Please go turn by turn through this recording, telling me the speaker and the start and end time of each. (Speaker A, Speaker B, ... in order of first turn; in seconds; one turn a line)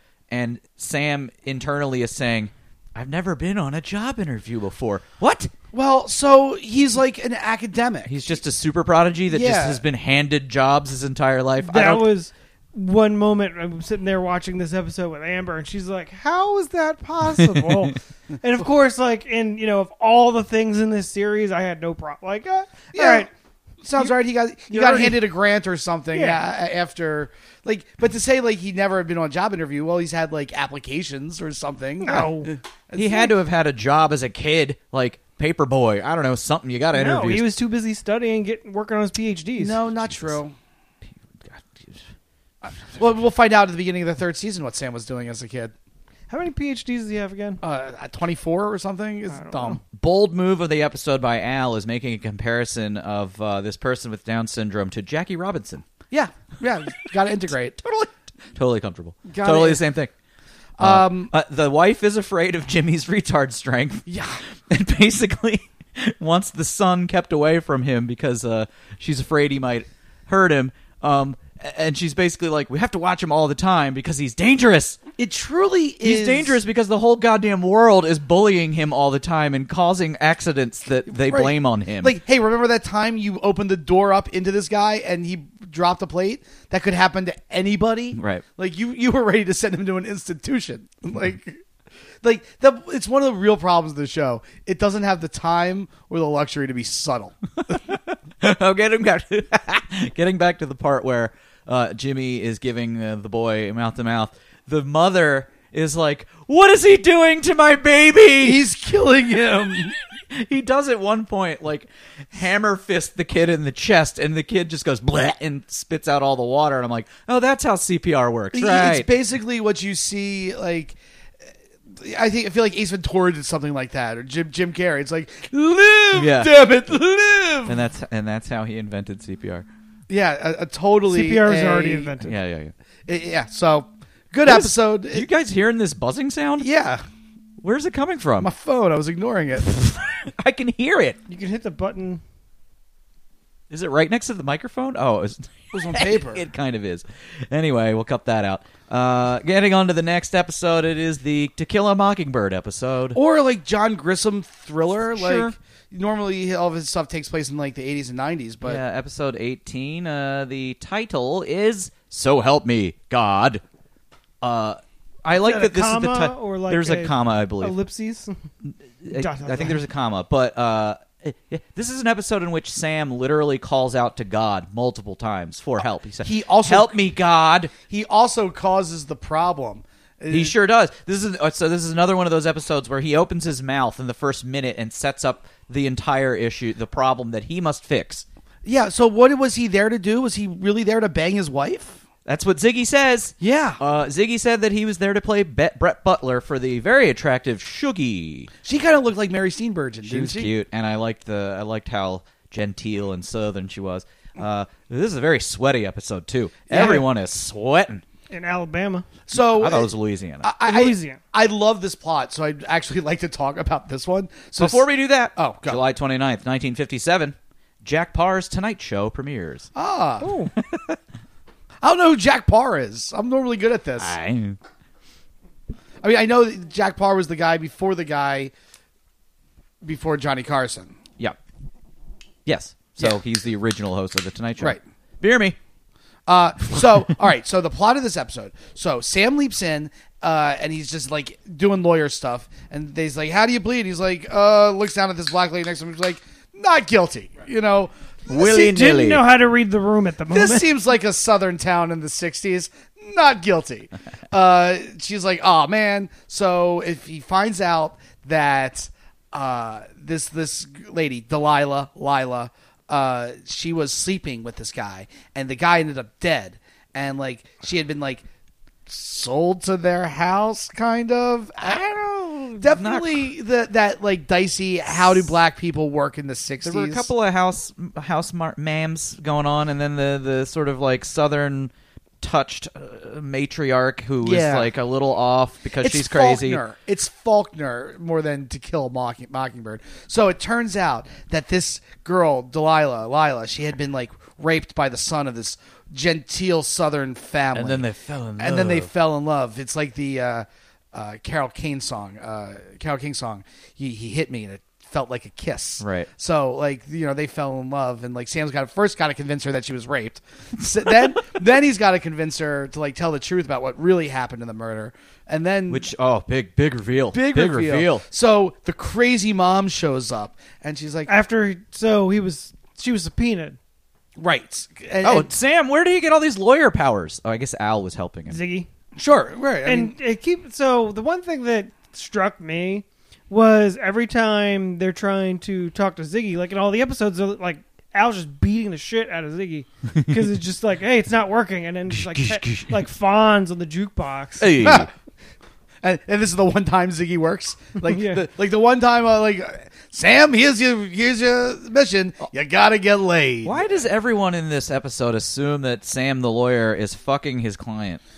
Speaker A: 0.3-5.5
Speaker B: 5.7-8.2
Speaker A: 8.1-12.1
Speaker B: 9.3-9.8
Speaker C: 11.6-23.3
Speaker A: 17.4-17.7
Speaker B: 22.9-23.3
Speaker B: 23.8-33.3
Speaker C: 24.7-25.2
Speaker C: 26.1-26.4
Speaker C: 32.0-32.5
Speaker A: 33.0-37.5
Speaker C: 36.9-39.8
Speaker B: 39.6-40.5
Speaker A: 40.0-40.3
Speaker A: 41.1-42.0
Speaker B: 42.6-45.7
Speaker C: 46.3-47.6
Speaker B: 47.6-49.8
Speaker C: 49.3-49.8
Speaker A: 50.0-55.9
Speaker B: 56.1-57.8
Speaker A: 57.8-60.1
Speaker B: 59.3-59.8
Speaker B: 60.8-61.3
Speaker A: 60.8-64.1
Speaker B: 64.1-64.4
Speaker A: 64.7-75.0
Speaker B: 75.2-76.6
Speaker A: 76.0-82.2
Speaker B: 81.2-91.6
Speaker A: 88.2-88.4
Speaker B: 92.2-97.3
Speaker A: 97.7-108.6
Speaker B: 108.4-109.9
Speaker A: 110.3-119.1
Speaker B: 118.5-121.0
Speaker B: 122.0-127.8
Speaker A: 126.1-126.6
Speaker A: 127.7-129.7
Speaker B: 130.1-132.2
Speaker C: 131.1-132.3
Speaker A: 132.2-132.7
Speaker B: 133.1-135.3
Speaker A: 134.4-136.7
Speaker B: 136.6-137.0
Speaker A: 137.6-138.5
Speaker B: 138.4-139.7
Speaker A: 139.7-141.2
Speaker C: 141.3-142.2
Speaker A: 143.7-153.2
Speaker B: 145.7-146.4
Speaker B: 153.1-158.8
Speaker A: 155.1-155.6
Speaker A: 158.6-163.6
Speaker A: 164.4-167.8
Speaker C: 165.3-168.3
Speaker A: 168.7-177.7
Speaker C: 169.1-169.8
Speaker B: 176.2-177.0
Speaker B: 177.8-180.6
Speaker A: 180.3-188.2
Speaker B: 188.6-192.0
Speaker A: 192.3-198.5
Speaker B: 193.4-193.8
Speaker B: 198.6-200.5
Speaker A: 200.0-208.0
Speaker B: 206.7-207.0
Speaker C: 208.3-209.2
Speaker B: 209.3-209.9
Speaker A: 209.3-210.5
Speaker B: 210.4-215.8
Speaker C: 210.7-211.2
Speaker A: 214.6-219.7
Speaker B: 219.8-220.3
Speaker C: 220.2-220.5
Speaker A: 220.6-221.0
Speaker B: 221.8-224.2
Speaker A: 224.0-224.6
Speaker B: 226.0-228.5
Speaker B: 229.8-230.9
Speaker A: 232.4-235.6
Speaker B: 236.3-248.8
Speaker A: 248.3-249.2
Speaker C: 248.3-250.7
Speaker B: 250.3-268.2
Speaker B: 268.9-271.9
Speaker A: 271.6-273.3
Speaker B: 272.6-277.1
Speaker A: 274.9-275.3
Speaker A: 276.6-286.6
Speaker B: 284.2-284.7
Speaker B: 285.8-297.9
Speaker A: 297.5-298.9
Speaker B: 298.4-315.9
Speaker A: 305.8-306.1
Speaker A: 315.7-318.0
Speaker B: 317.1-321.1
Speaker C: 321.1-323.6
Speaker B: 324.2-325.3
Speaker A: 325.0-328.4
Speaker C: 328.3-328.7
Speaker B: 329.0-329.9
Speaker C: 329.6-344.6
Speaker A: 342.2-342.7
Speaker A: 344.4-344.9
Speaker B: 344.6-344.9
Speaker B: 345.8-353.8
Speaker C: 347.8-348.2
Speaker A: 353.4-358.0